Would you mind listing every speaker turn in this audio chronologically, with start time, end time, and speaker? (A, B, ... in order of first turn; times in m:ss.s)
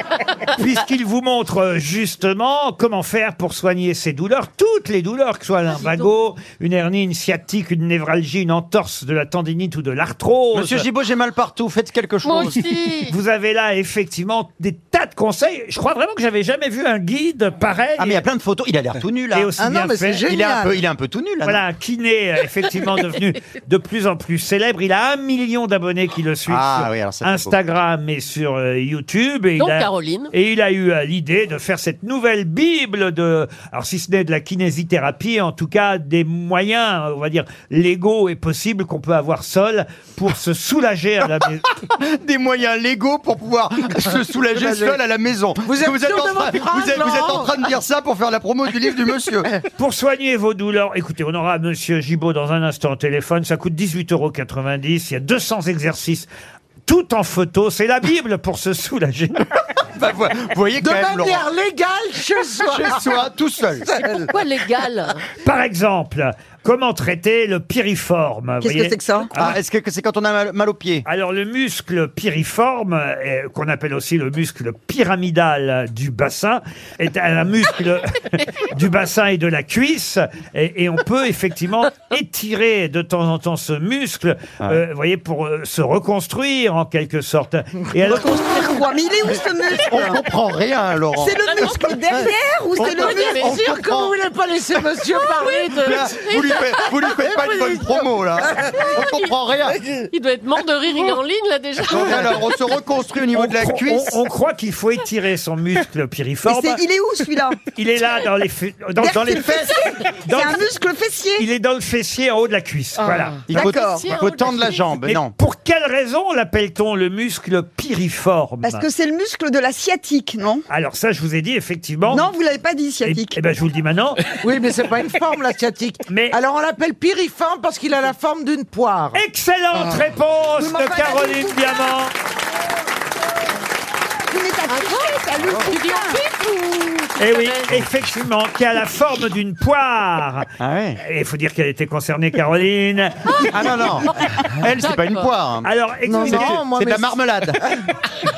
0:00.5-0:10.8 A
0:05.7-0:06.1 B
0:10.5-0:12.6 C
0:12.2-0:13.1 B
0:13.1-0:18.2 A
0:18.0-0:19.5 C
0:19.3-0:20.2 A
0:19.6-0:20.8 D
0:20.2-0:21.6 C
0:21.4-0:41.6 A
0:26.5-0:27.6 C
0:29.6-0:30.3 B
0:41.9-0:49.5 C
0:44.5-0:45.0 D
0:45.6-0:47.6 D
0:49.8-0:56.3 A
0:56.9-0:59.5 A
0:59.8-1:01.4 C
1:00.8-1:03.1 D
1:02.7-1:03.9 C
1:03.8-1:04.3 D
1:04.3-1:05.3 B
1:05.3-1:09.6 A
1:08.6-1:09.3 E
1:09.3-1:11.0 C
1:11.0-1:28.3 A
1:28.0-1:30.2 E
1:29.3-1:31.4 C
1:31.1-1:33.5 E
1:31.4-1:32.0 B
1:32.8-1:34.2 C
1:32.9-1:33.6 B
1:33.4-1:36.1 D
1:35.1-1:38.0 B
1:35.7-1:39.8 C
1:38.4-1:38.9 D
1:38.8-1:39.3 B
1:39.7-1:40.1 D
1:40.1-1:42.4 B
1:41.8-1:44.2 C
1:43.3-1:46.8 A
1:46.4-1:47.6 E
1:47.7-1:49.5 A
1:49.0-1:51.5 E
1:49.1-1:49.9 C
1:50.1-1:50.6 A
1:51.4-1:53.5 A
1:53.5-1:55.3 C
1:53.5-1:54.1 E
1:53.6-1:54.9 B
1:55.0-1:58.9 A
1:58.6-2:00.6 E
2:00.7-2:02.3 A
2:02.1-2:03.4 E
2:03.0-2:04.4 A
2:04.4-2:09.2 D
2:06.1-2:06.4 A
2:09.1-2:12.1 A
2:10.6-2:11.8 E
2:14.3-2:16.2 E
2:14.7-2:17.9 B
2:17.2-2:20.5 A
2:20.6-2:21.0 C
2:21.0-2:23.5 A
2:23.3-2:25.3 B
2:23.5-2:25.7 C
2:25.6-2:26.6 A
2:26.0-2:27.2 D
2:26.2-2:27.6 C